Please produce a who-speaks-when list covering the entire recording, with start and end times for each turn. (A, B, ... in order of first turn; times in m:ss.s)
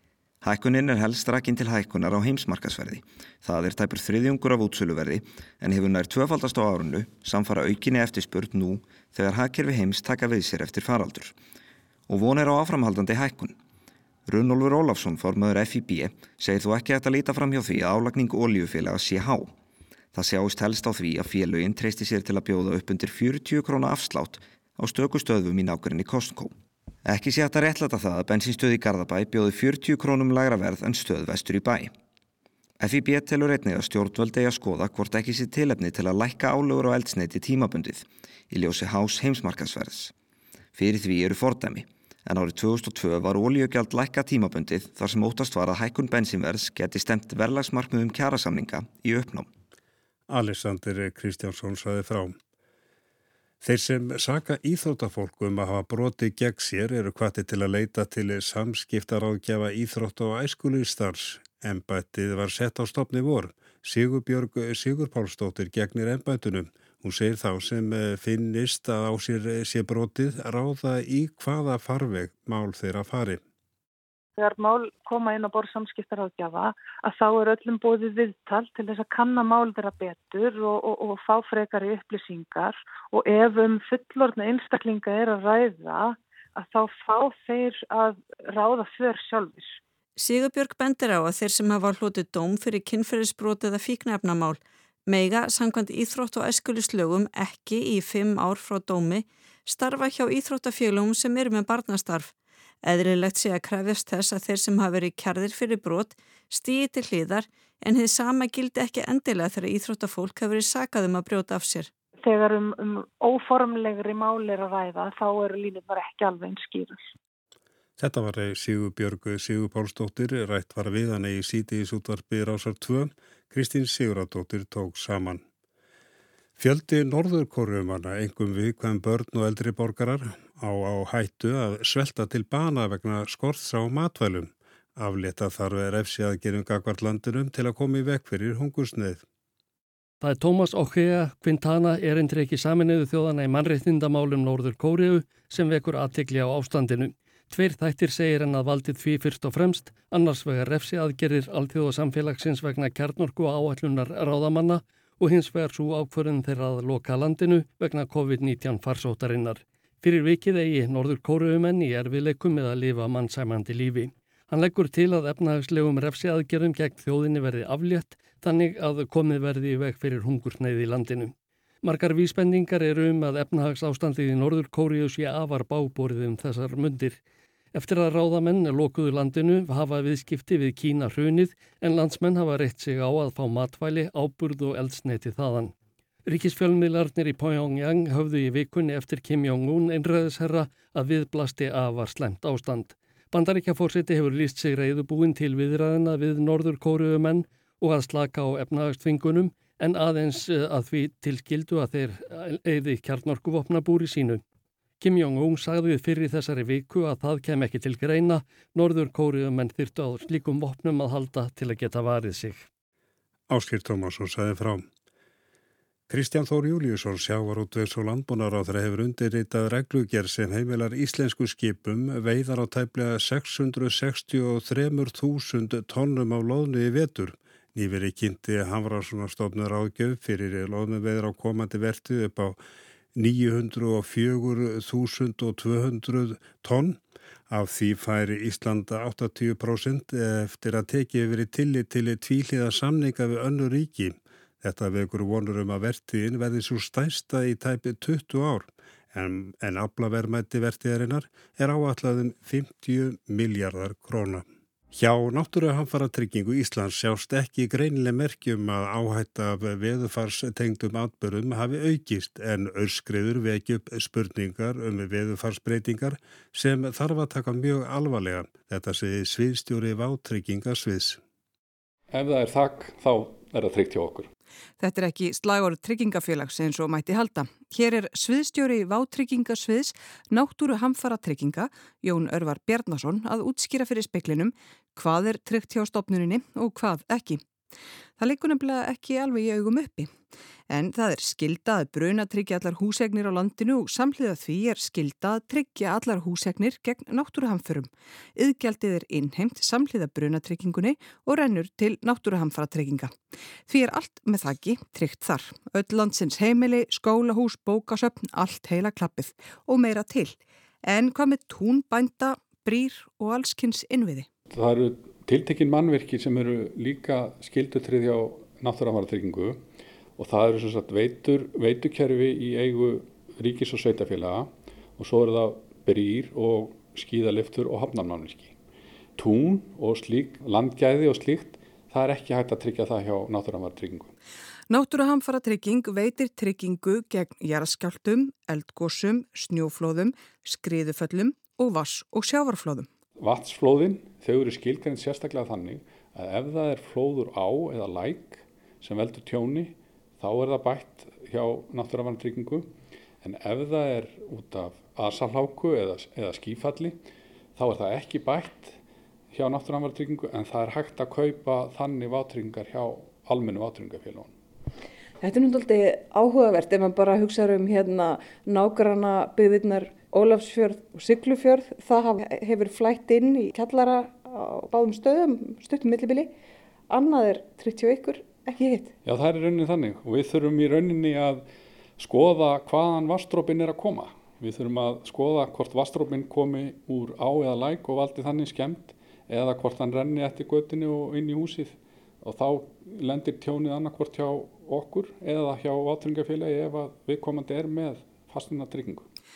0:00.4-0:11.4 A
0:12.1-0:13.6 A
0:14.3-0:19.5 A
0:20.1-0:26.5 A
0:27.1-0:31.9 A
0:32.8-0:40.1 A
0:40.8-0:49.5 A
0:50.3-0:52.4 B
0:53.6-1:13.4 B
1:14.4-1:29.8 C
1:30.2-1:42.3 D
1:42.8-1:51.9 D
1:52.2-1:57.1 C
1:58.0-2:05.4 B
2:06.6-2:19.2 B
2:20.2-2:57.2 E
2:57.7-3:05.7 E
3:06.3-3:24.4 E
3:25.0-3:32.7 E
3:33.5-3:34.9 B
3:36.1-3:52.6 B
3:53.2-4:31.2 B
4:32.1-4:34.3 F
4:34.8-4:47.4 G
4:48.2-4:50.1 G
4:50.7-5:03.1 G
5:03.7-5:14.3 G
5:14.5-5:19.6 F
5:20.2-5:28.6 F
5:29.2-5:34.1 F
5:34.7-5:42.9 G
5:43.2-5:52.7 F
5:53.2-5:57.0 F
5:57.6-5:58.8 F
5:59.3-6:04.3 F
6:05.2-6:16.3 H
6:16.9-6:18.9 H
6:19.0-6:21.4 F
6:22.0-6:39.0 F